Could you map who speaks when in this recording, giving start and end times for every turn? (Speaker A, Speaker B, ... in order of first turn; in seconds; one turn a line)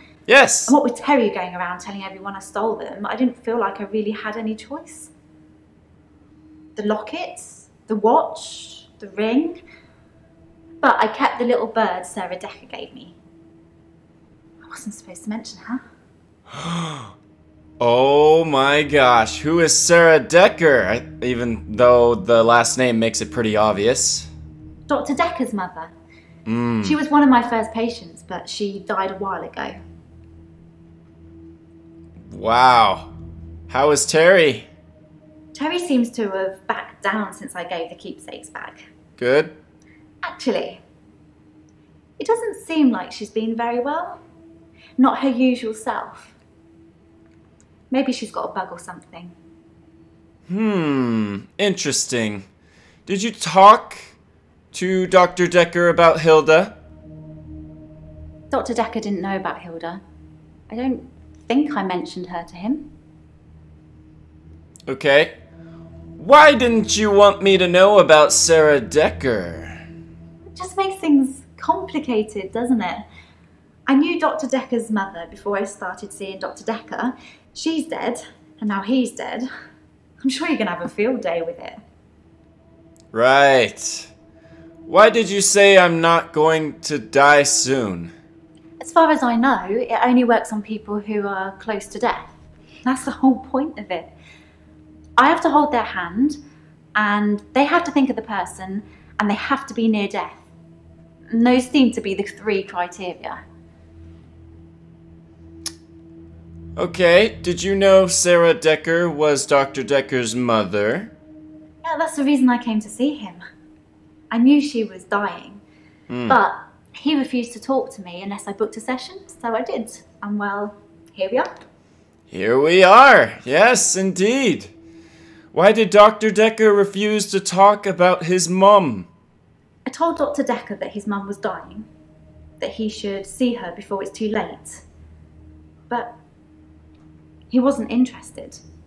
Speaker A: 0.3-0.8
Speaker B: 0.7-5.1
Speaker B: 6.8-9.6
Speaker B: 10.8-13.2
Speaker B: 14.6-15.8
Speaker A: 16.5-17.1
Speaker A: 17.8-24.3
Speaker B: 24.9-25.9
Speaker A: 26.5-27.0
Speaker B: 26.8-29.8
Speaker A: 32.3-33.1
Speaker A: 33.7-34.7
Speaker B: 35.5-38.9
Speaker A: 39.2-39.5
Speaker B: 40.2-40.8
Speaker B: 42.2-44.2
Speaker B: 45.0-46.3
Speaker B: 47.9-49.4
Speaker A: 50.5-52.5
Speaker A: 53.1-54.1
Speaker A: 54.7-56.7
Speaker B: 58.5-60.0
Speaker B: 60.7-62.9
Speaker A: 64.9-65.3
Speaker A: 66.2-69.8
Speaker B: 70.5-73.0
Speaker B: 73.9-79.5
Speaker B: 80.2-81.8
Speaker A: 83.1-84.1
Speaker A: 84.9-88.1
Speaker B: 88.8-92.3
Speaker B: 92.8-94.1
Speaker B: 95.2-96.4
Speaker B: 97.0-100.5
Speaker B: 101.3-103.4
Speaker A: 106.8-111.1
Speaker B: 111.8-113.4
Speaker B: 114.3-115.6
Speaker A: 116.1-116.4
Speaker B: 116.3-121.6
Speaker A: 122.3-124.7
Speaker A: 125.5-129.1
Speaker B: 129.8-131.9
Speaker B: 132.6-134.8
Speaker B: 135.9-136.2
Speaker B: 137.5-138.6